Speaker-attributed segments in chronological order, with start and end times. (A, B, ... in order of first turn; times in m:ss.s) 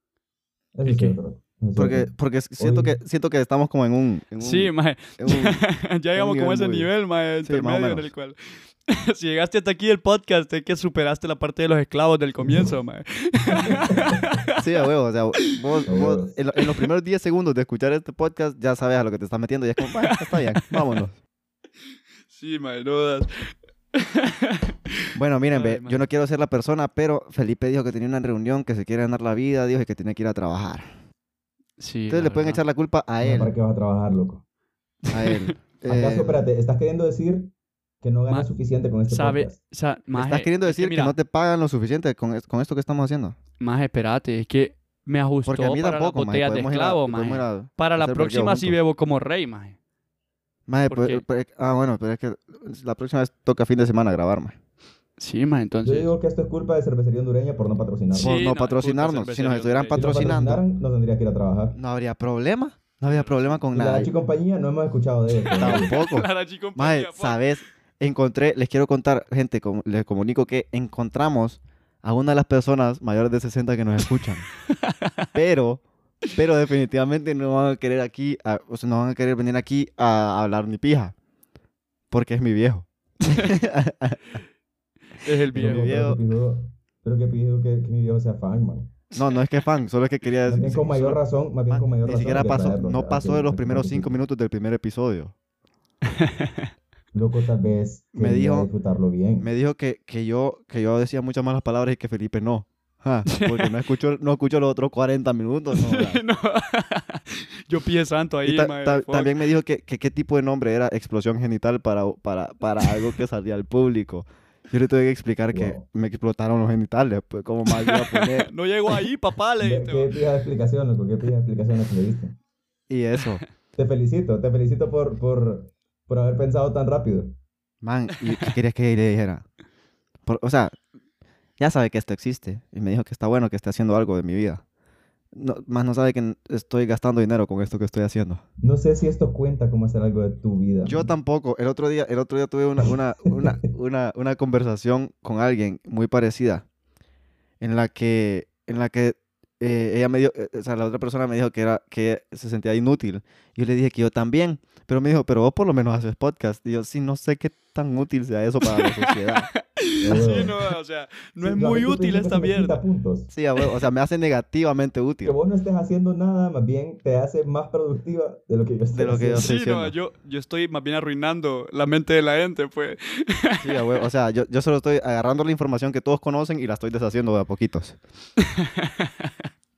0:00.7-0:03.0 A
0:00.8-0:01.2 B
0:01.8-0:06.9 C
0:04.4-0:14.6 B
0:07.4-0:08.1 C
0:13.5-0:14.3 A
0:14.6-0:21.2 C
0:15.9-0:16.4 A
0:20.0-0:20.8 B
0:22.3-0:26.0 B
0:25.1-0:30.9 C
0:31.8-0:32.6 B
0:32.1-0:33.5 C
0:33.2-0:34.4 A
0:35.1-0:36.4 C
0:35.2-0:35.5 B
0:35.9-0:39.6 A
0:39.1-0:41.2 B
0:40.1-0:43.4 C
0:43.6-0:49.8 B
0:45.4-0:48.8 C
0:50.7-0:54.6 C
0:50.9-0:51.2 B
0:55.2-0:56.1 B
0:55.8-0:58.3 A
0:58.1-1:00.0 B
0:58.2-1:00.6 C
0:59.9-1:01.8 A
1:01.7-1:04.1 C
1:03.0-1:03.6 B
1:03.7-1:05.9 A
1:05.4-1:07.4 B
1:05.6-1:14.5 C
1:14.7-1:15.3 B
1:15.3-1:21.1 C
1:22.1-1:24.4 C
1:23.2-1:23.5 B
1:25.2-1:25.9 B
1:25.5-1:26.2 C
1:25.5-1:28.9 A
1:29.1-1:29.8 B
1:29.1-1:35.3 C
1:30.4-1:34.2 A
1:36.1-1:36.7 B
1:37.1-1:39.5 A
1:38.1-1:38.7 C
1:39.4-1:46.2 C
1:43.2-1:43.8 B
1:45.7-1:49.4 B
1:48.4-1:58.5 C
1:55.5-1:55.8 A
1:57.7-2:00.1 B
1:59.6-2:02.4 A
2:02.9-2:03.4 C
2:03.8-2:07.3 A
2:07.8-2:09.4 C
2:08.2-2:08.5 B
2:10.2-2:10.7 C
2:11.6-2:14.6 C
2:15.3-2:18.4 C
2:18.6-2:21.1 A
2:20.8-2:26.6 C
2:22.8-2:23.6 A
2:27.6-2:39.5 C
2:38.6-2:42.8 B
2:40.0-2:40.7 A
2:41.4-2:43.3 A
2:43.3-2:45.4 C
2:45.2-2:49.5 A
2:48.9-2:49.9 C
2:49.4-2:53.9 B
2:53.6-2:58.0 C
2:58.4-2:59.3 B